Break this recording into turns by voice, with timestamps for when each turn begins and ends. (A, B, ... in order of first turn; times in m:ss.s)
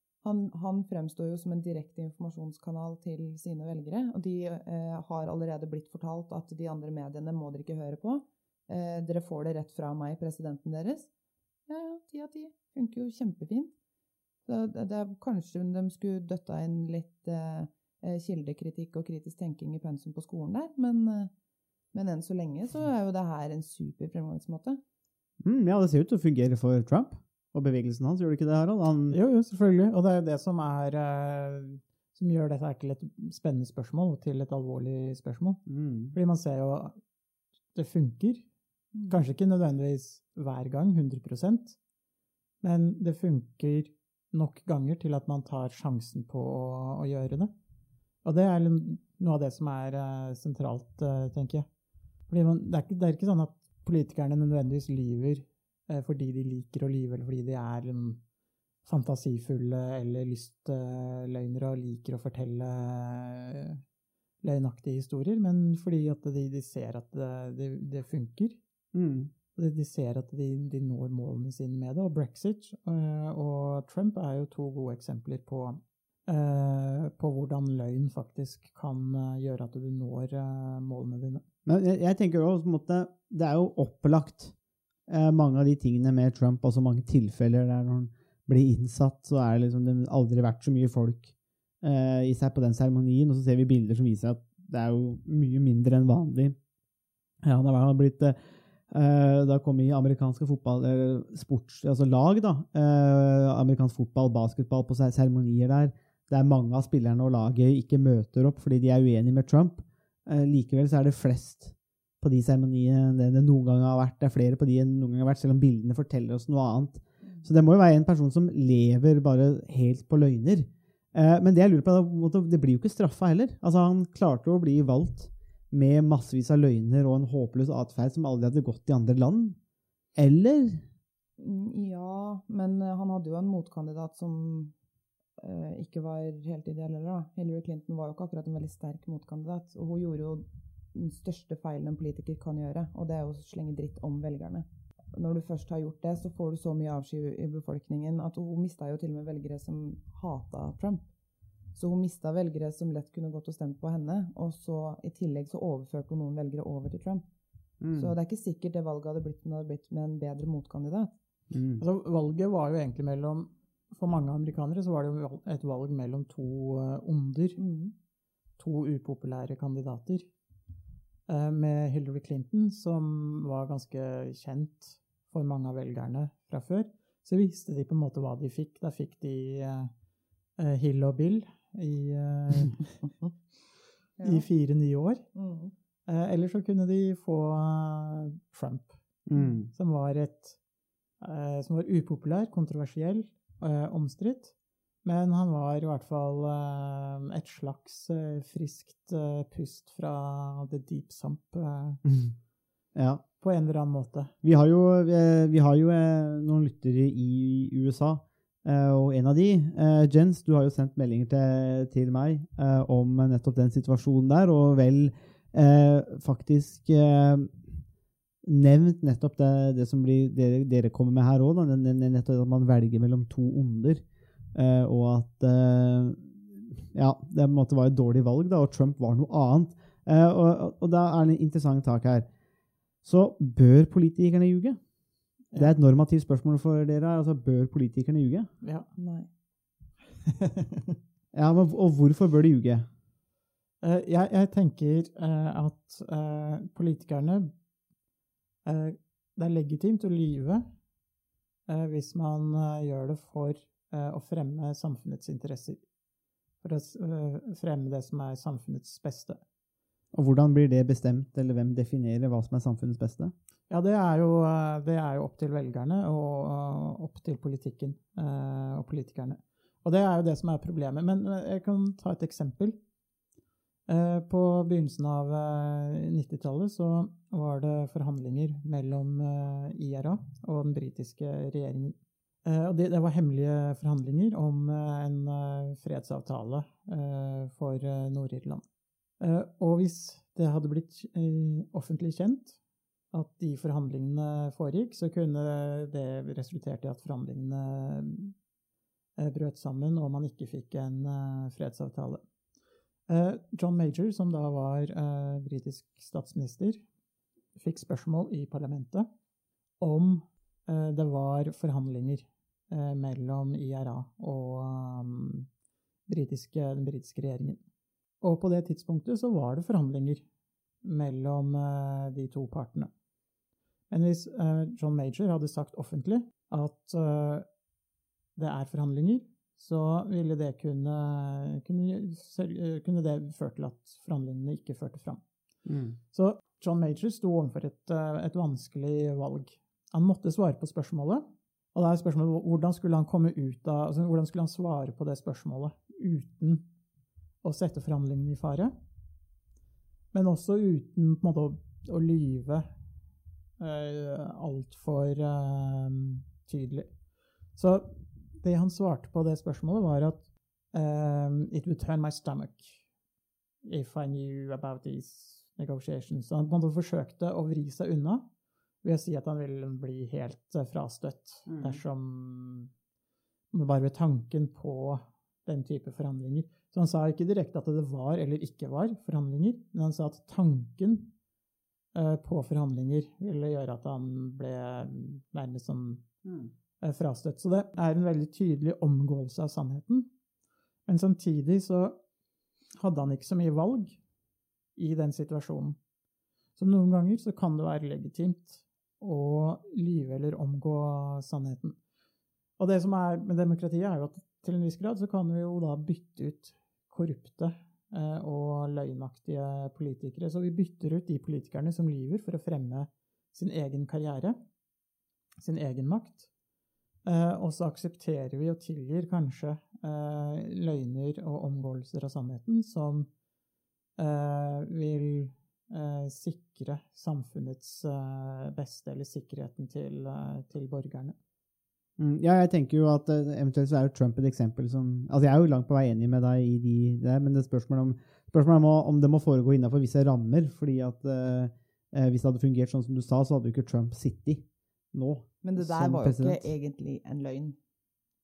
0:00.2-0:11.1 A
0:11.7-0:13.7 A
0:14.5-0:21.3 A
0:21.9-0:24.8 A
0:25.4-0:29.2 B
0:29.1-0:35.6 C
0:35.7-0:36.2 B
0:36.1-0:37.0 C
0:37.7-0:38.4 C
0:39.1-0:41.8 C
0:42.6-0:47.5 C
0:48.2-0:51.7 C
0:52.3-0:58.2 C
0:58.8-1:03.8 C
1:04.4-1:08.6 C
1:08.9-1:09.3 B
1:09.6-1:21.4 C
1:21.7-1:24.5 B
1:25.1-1:36.6 B
1:37.4-1:38.4 B
1:38.9-2:09.6 B
2:10.2-2:10.8 B
2:11.4-2:14.7 A
2:15.4-2:31.0 A
2:31.8-2:37.2 A
2:37.8-2:38.1 B
2:38.0-2:41.1 A
2:41.5-2:41.8 B
2:41.8-2:47.6 C
2:47.6-2:47.9 A
2:48.6-2:50.3 C
2:51.3-2:59.9 C
3:00.6-3:02.8 C
3:04.2-3:04.4 A
3:04.2-3:05.2 C
3:05.4-3:05.7 A
3:06.1-3:09.0 C
3:09.3-3:09.7 B
3:09.7-3:10.6 C
3:11.2-3:14.5 C
3:15.0-3:22.0 C
3:22.0-3:22.3 B
3:23.0-3:23.2 B
3:23.4-3:24.3 C
3:24.4-3:37.7 B
3:38.4-3:44.0 B
3:44.6-3:52.3 B
3:53.0-3:54.8 B
3:55.5-3:58.5 B
3:59.0-3:59.3 A
4:00.4-4:00.9 C
4:01.3-4:02.9 B
4:03.8-4:07.5 C
4:08.6-4:10.6 C
4:11.7-4:15.8 C
4:16.6-4:19.4 C
4:20.1-4:23.3 B
4:23.7-4:32.8 C
4:33.9-4:48.6 C
4:49.2-4:52.6 C
4:53.1-4:58.3 C
4:59.2-5:02.2 C
5:03.1-5:06.8 C
5:07.6-5:09.1 C
5:09.8-5:15.5 C
5:16.1-5:17.6 C
5:18.2-5:20.2 C
5:20.8-5:22.9 C
5:23.9-5:27.5 C
5:28.4-5:35.2 C
5:35.7-5:36.0 B
5:36.1-5:46.7 C
5:47.4-5:48.7 C
5:50.1-5:52.7 C
5:53.6-5:56.9 C
5:57.6-6:02.8 C
6:03.6-6:08.2 C
6:08.8-6:12.7 C
6:11.5-6:11.8 B
6:13.5-6:21.1 C
6:22.0-6:26.0 C
6:26.2-6:26.5 B
6:26.8-6:30.1 C
6:30.9-6:32.0 C
6:32.8-6:34.0 C
6:34.8-6:35.8 C
6:36.6-6:41.8 C
6:42.6-6:54.4 C
6:55.4-6:56.3 C
6:57.0-7:03.1 C
7:04.0-7:11.2 C
7:12.0-7:26.5 B
7:25.4-7:27.6 A